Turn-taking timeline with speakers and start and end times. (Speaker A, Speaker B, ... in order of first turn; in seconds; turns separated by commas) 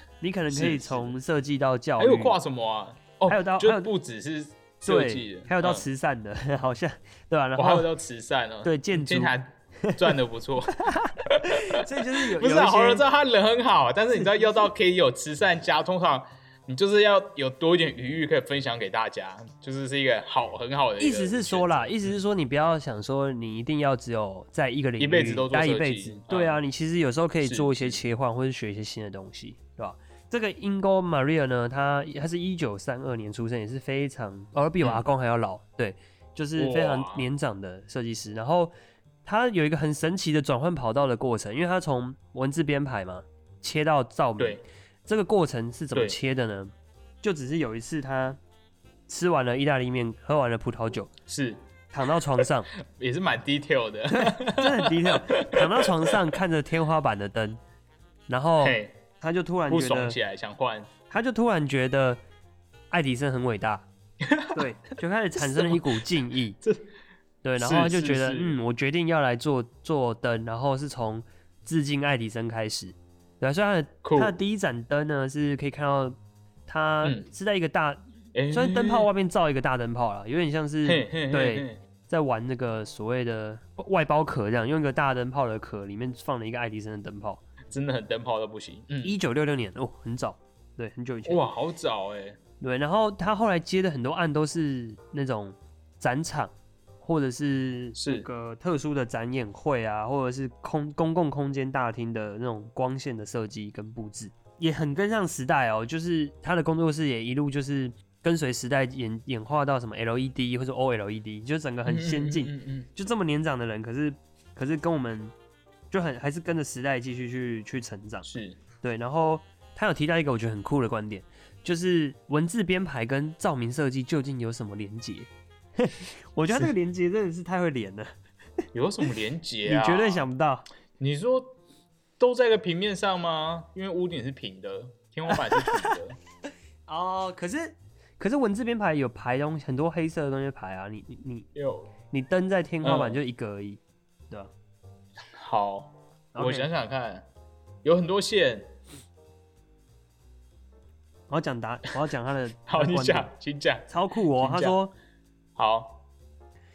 Speaker A: 0.2-2.4, Speaker B: 0.5-1.2, Speaker B: 2.0-5.8, Speaker A: 3.3-3.9, Speaker A: 4.8-7.9, Speaker B: 7.6-22.1, Speaker A: 8.6-10.1, Speaker A: 10.7-13.0, Speaker A: 21.0-38.7, Speaker B: 25.0-26.6, Speaker B: 27.4-28.0, Speaker B: 36.6-37.3, Speaker A: 39.2-46.7, Speaker B: 45.9-46.2, Speaker A: 47.2-48.4, Speaker A: 49.1-51.1, Speaker B: 51.3-51.6, Speaker A: 51.9-52.7, Speaker B: 52.4-56.2, Speaker A: 54.1-57.6, Speaker A: 58.3-60.2, Speaker B: 58.6-59.0, Speaker B: 59.7-60.9, Speaker A: 61.1-62.2, Speaker A: 62.9-63.9, Speaker B: 64.2-64.7, Speaker A: 64.5-66.6, Speaker B: 65.3-66.0, Speaker A: 67.4-76.2, Speaker B: 67.6-68.6, Speaker B: 74.0-74.4, Speaker A: 76.7-87.4, Speaker B: 78.3-79.1, Speaker B: 80.8-81.8, Speaker B: 87.7-89.2, Speaker A: 89.0-91.4, Speaker B: 91.3-92.4, Speaker A: 92.6-115.3, Speaker B: 98.0-98.3, Speaker B: 111.9-112.9, Speaker A: 115.9-118.3, Speaker B: 118.3-118.6, Speaker A: 118.8-128.1, Speaker B: 128.7-130.3, Speaker A: 129.7-130.7, Speaker B: 131.0-131.6, Speaker B: 132.2-136.2, Speaker A: 135.3-135.9, Speaker A: 136.9-141.5, Speaker B: 141.6-141.9, Speaker A: 142.1-143.8, Speaker B: 142.8-143.2, Speaker B: 145.4-147.2, Speaker A: 146.3-146.7, Speaker B: 147.8-148.8, Speaker A: 151.3-153.3, Speaker B: 152.7-154.8, Speaker A: 153.9-154.9, Speaker B: 155.6-156.0